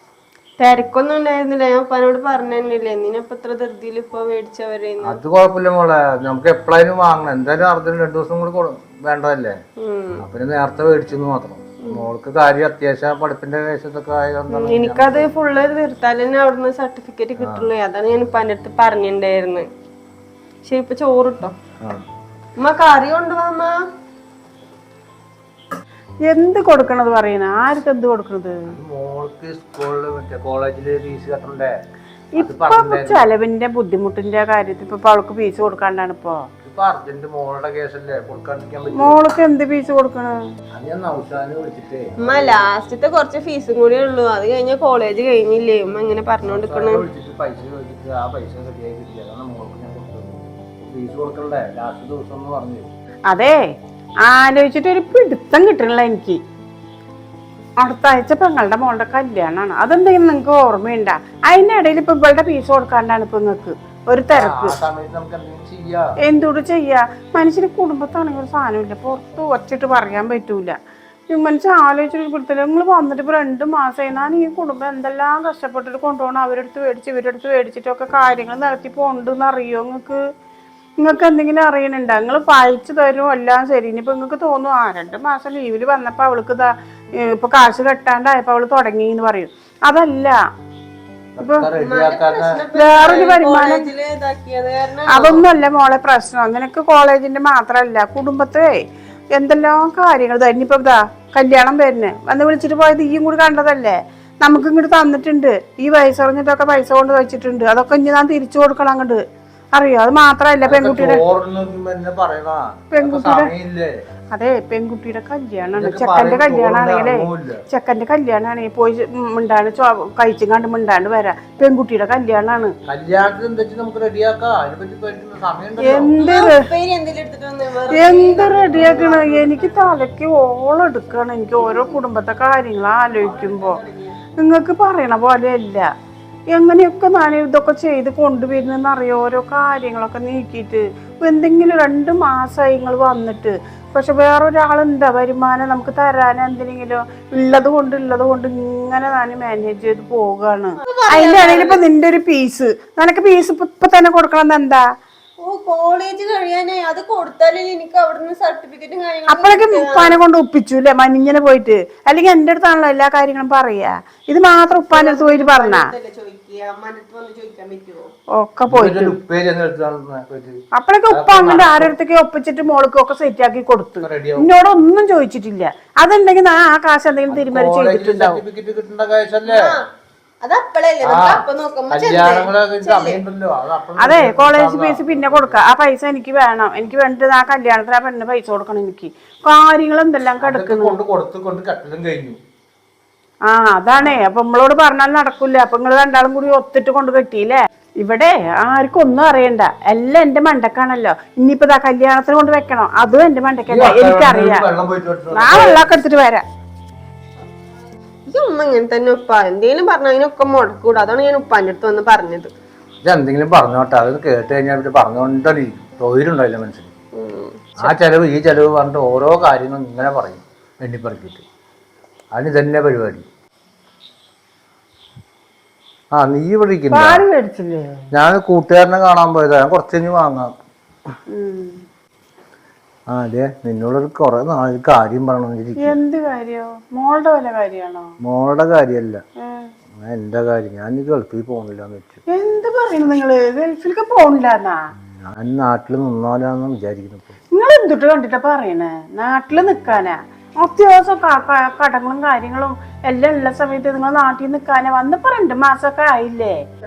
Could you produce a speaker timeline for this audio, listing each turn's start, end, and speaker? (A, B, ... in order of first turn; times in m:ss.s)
0:00.6-0:05.2 A
0:05.0-0:09.6 B
0:09.8-0:10.2 A
0:10.2-0:15.3 B
0:14.5-0:19.6 A
0:17.4-0:17.7 B
0:20.6-0:21.5 A
0:22.6-0:23.8 A
0:26.2-0:28.6 C
0:28.7-0:31.7 B
0:32.4-0:33.3 B
0:32.4-0:36.4 C
0:36.6-0:39.2 B
0:38.9-0:40.4 C
0:40.7-0:42.6 B
0:42.2-0:47.0 A
0:46.4-0:52.9 B
0:53.3-0:53.6 C
0:54.2-0:56.4 C
0:57.8-1:04.8 C
1:04.3-1:06.0 B
1:06.2-1:10.8 C
1:11.3-1:20.2 C
1:21.0-1:30.3 C
1:31.4-1:32.6 B
1:31.4-1:31.7 C
1:31.8-1:35.4 A
1:32.8-1:33.9 C
1:35.1-1:38.8 C
1:39.3-1:49.2 C
1:49.7-1:51.2 C
1:50.6-1:53.9 B
1:52.9-1:53.5 C
1:54.3-2:02.7 C
1:55.8-1:57.6 B
2:02.9-2:06.2 B
2:05.8-2:06.6 C
2:06.2-2:09.9 A
2:07.9-2:13.8 C
2:08.7-2:09.1 B
2:11.6-2:12.0 A
2:13.2-2:14.2 A
2:14.4-2:15.8 C
2:16.5-2:34.8 C
2:30.8-2:31.8 A
2:35.4-2:40.2 A
2:39.3-2:45.9 C
2:44.7-2:48.1 A
2:48.4-2:49.2 C
2:48.7-2:50.6 B
2:50.7-2:58.4 C
2:51.1-2:51.9 B
2:54.0-2:54.5 B
2:57.3-2:59.8 B
2:59.4-2:59.8 A
3:00.4-3:03.2 A
3:01.0-3:05.6 B
3:04.0-3:11.0 C
3:10.4-3:12.4 B
3:13.5-3:24.7 C
3:14.0-3:14.2 B
3:23.7-3:26.0 B
3:25.3-3:26.4 C
3:28.3-3:32.5 A
3:33.0-3:36.9 B
3:37.2-3:37.9 A
3:37.8-3:41.4 B
3:42.3-3:43.2 B
3:46.1-3:47.2 B
3:46.9-3:48.0 C
3:48.1-3:50.5 B
3:51.3-3:51.8 C
3:53.1-3:56.0 B
3:55.8-3:58.1 C
3:58.2-3:59.2 B
3:59.4-3:59.7 C
4:00.0-4:02.2 B
4:02.3-4:04.8 C
4:05.0-4:07.3 B
4:07.5-4:16.6 C